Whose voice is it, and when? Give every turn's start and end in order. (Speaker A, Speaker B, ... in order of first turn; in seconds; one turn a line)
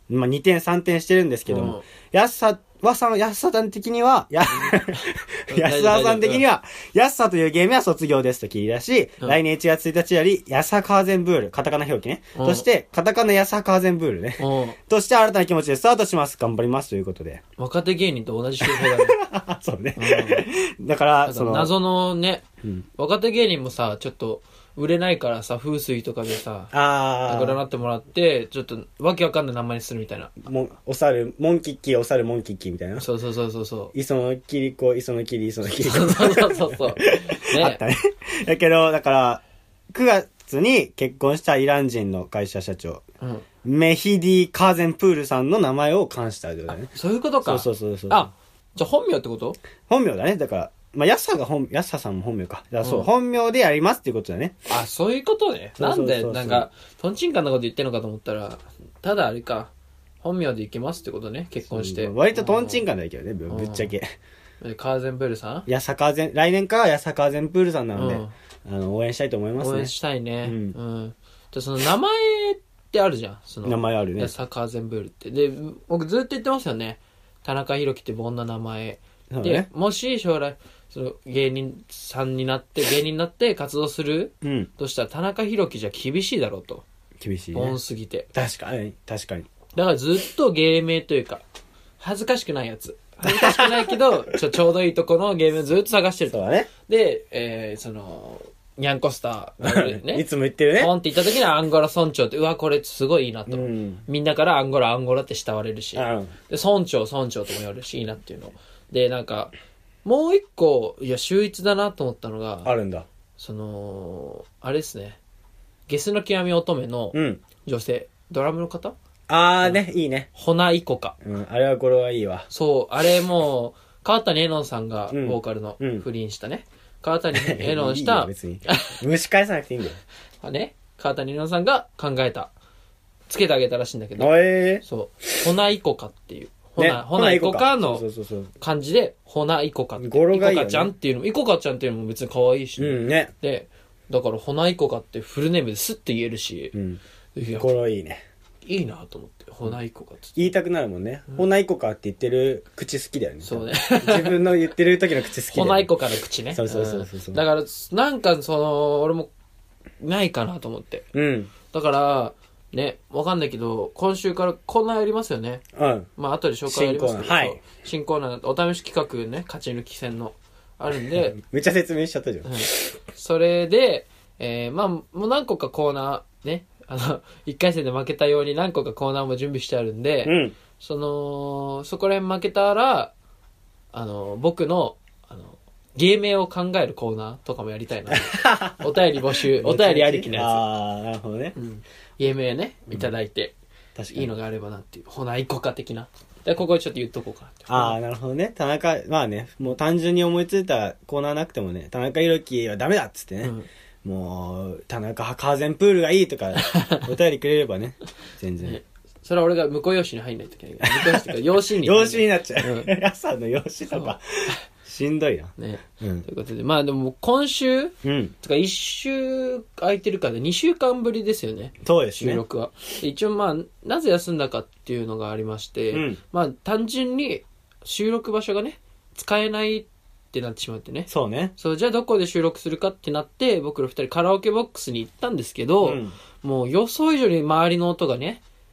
Speaker A: 0.1-17.4
Speaker B: 1.5-1.9
Speaker B: 4.5-6.4
Speaker B: 12.3-12.7
Speaker B: 14.4-14.8
Speaker B: 17.6-19.2
Speaker A: 18.6-21.7
Speaker B: 20.0-20.5
Speaker B: 21.2-22.4
Speaker B: 23.0-26.7
Speaker A: 26.7-27.6
Speaker B: 27.3-30.3
Speaker A: 30.4-33.1
Speaker B: 33.0-33.9
Speaker A: 33.9-43.0
Speaker B: 35.8-37.8
Speaker B: 43.2-43.5
Speaker A: 43.6-46.9
Speaker B: 46.9-49.6
Speaker A: 47.4-48.3
Speaker A: 49.9-54.6
Speaker B: 52.8-53.1
Speaker B: 54.7-62.8
Speaker A: 55.8-56.7
Speaker A: 61.6-64.1
Speaker B: 63.5-63.9
Speaker B: 64.6-65.7
Speaker A: 65.7-69.9
Speaker B: 68.0-68.3
Speaker B: 69.6-86.8
Speaker A: 70.4-70.8
Speaker A: 73.7-74.3
Speaker A: 79.3-79.7
Speaker A: 84.4-84.7
Speaker A: 87.2-87.8
Speaker B: 87.5-88.3
Speaker A: 88.3-89.5
Speaker B: 89.8-91.4
Speaker B: 92.0-100.3
Speaker A: 93.2-94.1
Speaker A: 96.3-96.7
Speaker A: 99.6-100.9
Speaker B: 100.8-109.5
Speaker A: 103.5-104.0
Speaker A: 106.0-106.3
Speaker B: 110.0-112.7
Speaker A: 112.7-113.1
Speaker B: 113.4-115.2
Speaker B: 115.9-119.0
Speaker A: 117.1-117.4
Speaker A: 119.3-120.3
Speaker B: 120.3-121.2
Speaker A: 121.2-122.5
Speaker B: 122.5-129.0
Speaker A: 125.1-126.1
Speaker A: 127.3-130.0
Speaker B: 130.4-132.5
Speaker B: 133.3-138.0
Speaker A: 134.2-134.8
Speaker A: 136.8-138.5
Speaker B: 138.6-146.8
Speaker A: 140.0-140.9
Speaker A: 142.8-143.3
Speaker A: 146.7-147.0
Speaker B: 147.3-147.7
Speaker A: 147.6-148.2
Speaker B: 148.7-150.5
Speaker A: 150.4-155.9
Speaker B: 153.4-154.5
Speaker B: 155.5-159.3
Speaker A: 156.5-157.4
Speaker B: 160.0-161.1
Speaker A: 161.1-161.5
Speaker B: 161.7-165.6
Speaker A: 165.8-166.1
Speaker B: 166.2-171.4
Speaker A: 166.7-167.6
Speaker A: 171.1-172.9
Speaker B: 172.4-183.1
Speaker A: 180.2-180.6
Speaker B: 183.9-190.6
Speaker A: 188.1-191.6
Speaker B: 191.6-193.6
Speaker A: 194.0-194.3
Speaker B: 194.1-198.0
Speaker A: 197.7-208.8
Speaker B: 203.4-203.7
Speaker B: 206.6-207.1
Speaker B: 208.6-212.9
Speaker A: 210.8-216.3
Speaker B: 215.6-238.4
Speaker A: 218.0-218.3
Speaker A: 221.8-222.4
Speaker A: 225.9-226.2
Speaker A: 231.1-231.5
Speaker A: 235.8-236.2